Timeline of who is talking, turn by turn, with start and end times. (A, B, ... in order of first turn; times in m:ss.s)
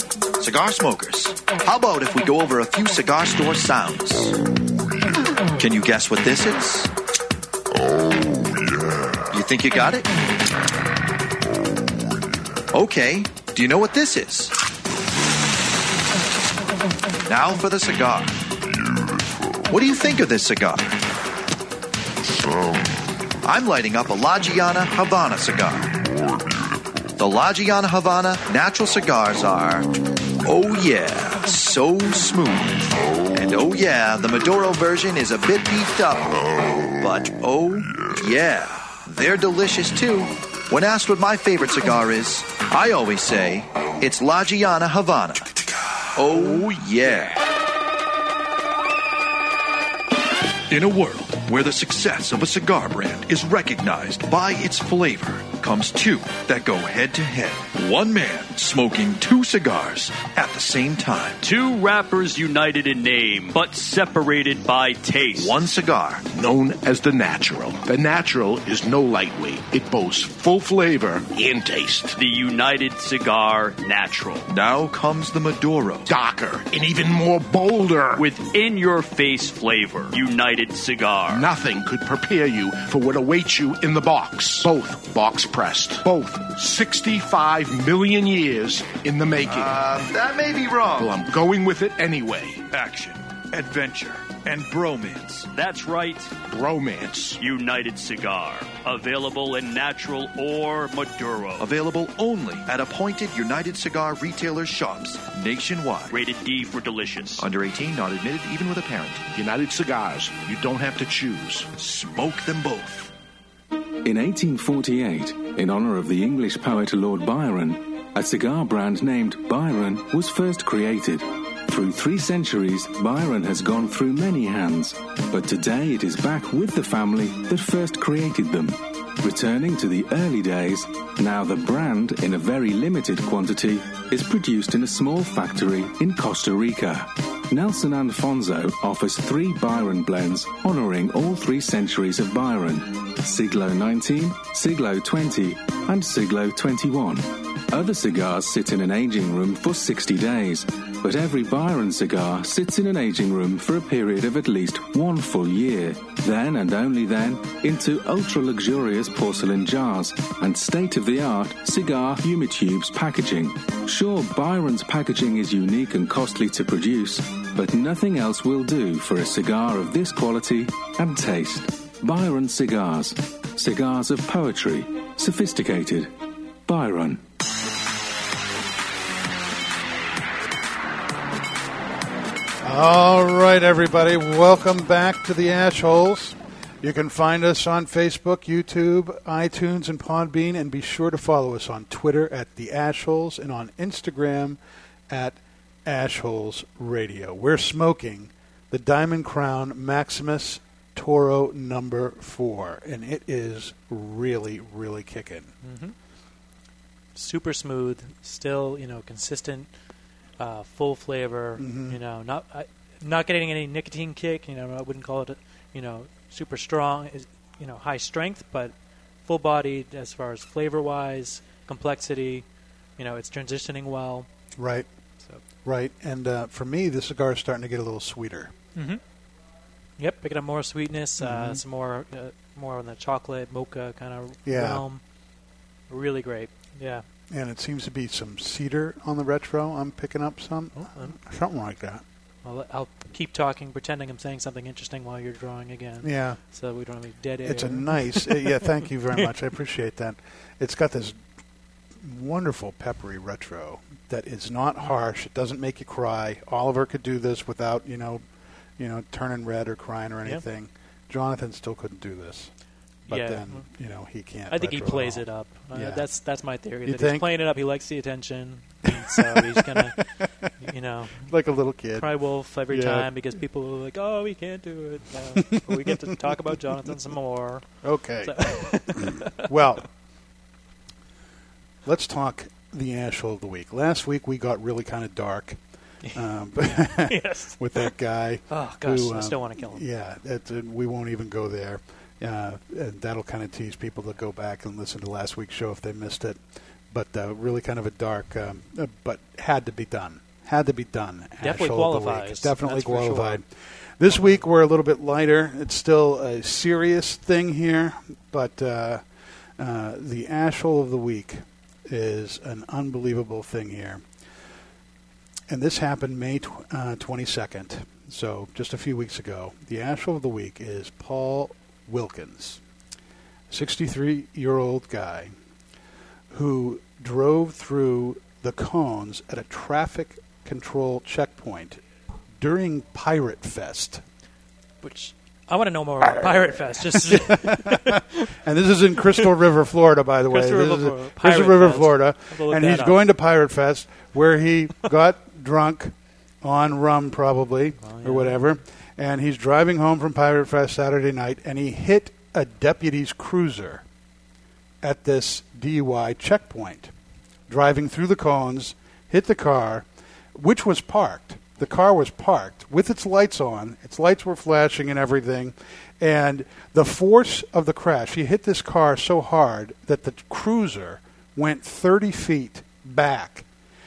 0:00.4-0:04.4 A
0:05.6-0:06.9 A
0:09.3-0:10.2 A
0:12.7-0:14.5 A
0:17.2-0:18.4 A
0:19.7-0:21.0 A
0:23.4-0:26.1 A
0:27.2-0:45.5 A
0:46.1-0:47.4 A
0:50.7-1:01.4 A
1:01.4-1:05.6 B
1:05.4-1:06.2 A
1:06.3-1:12.2 C
1:12.1-1:14.5 B
1:14.5-1:16.1 A
1:16.1-1:18.2 C
1:18.2-1:21.5 B
1:21.3-1:29.8 C
1:29.4-1:31.2 A
1:31.0-1:32.7 C
1:32.7-1:35.5 A
1:35.5-1:36.4 B
1:36.5-1:37.4 C
1:37.4-1:41.7 B
1:41.6-1:46.2 A
1:46.1-1:47.4 B
1:47.4-1:49.2 A
1:49.3-1:51.7 C
1:51.7-1:53.1 A
1:54.0-2:56.1 D
2:56.6-2:57.2 D
3:02.6-3:25.5 E
3:25.6-3:25.9 F
3:27.1-3:29.7 F
3:30.4-3:42.4 F
3:31.6-3:32.0 E
3:43.0-3:44.3 F
3:44.6-3:44.9 E
3:45.6-3:48.5 E
3:48.7-3:49.0 F
3:50.0-3:55.0 F
3:51.2-3:51.6 E
3:54.4-3:54.8 E
3:55.9-3:57.0 F
3:57.3-4:02.0 E
4:00.7-4:01.2 F
4:02.4-4:09.3 F
4:06.0-4:06.4 E
4:07.4-4:11.2 E
4:12.0-4:18.2 E
4:18.8-4:22.5 E
4:23.0-4:26.1 E
4:23.1-4:23.6 F
4:24.5-4:31.3 F
4:26.8-4:27.4 E
4:29.1-4:30.5 E
4:31.1-4:33.1 E
4:32.0-4:39.5 F
4:35.4-4:37.0 E
4:37.8-4:39.9 E
4:41.8-5:09.0 E
4:46.0-4:48.0 F
4:48.5-4:49.9 F
5:01.4-5:03.4 F
5:04.1-5:04.4 F
5:09.6-5:14.0 E
5:15.5-5:22.6 E
5:23.5-5:25.3 E
5:26.3-5:31.8 E
5:32.4-5:34.0 E
5:34.8-5:38.0 F
5:36.0-5:53.8 E
5:40.3-5:43.0 F
5:47.8-5:48.4 F
5:54.8-5:56.9 E
5:57.5-6:13.4 E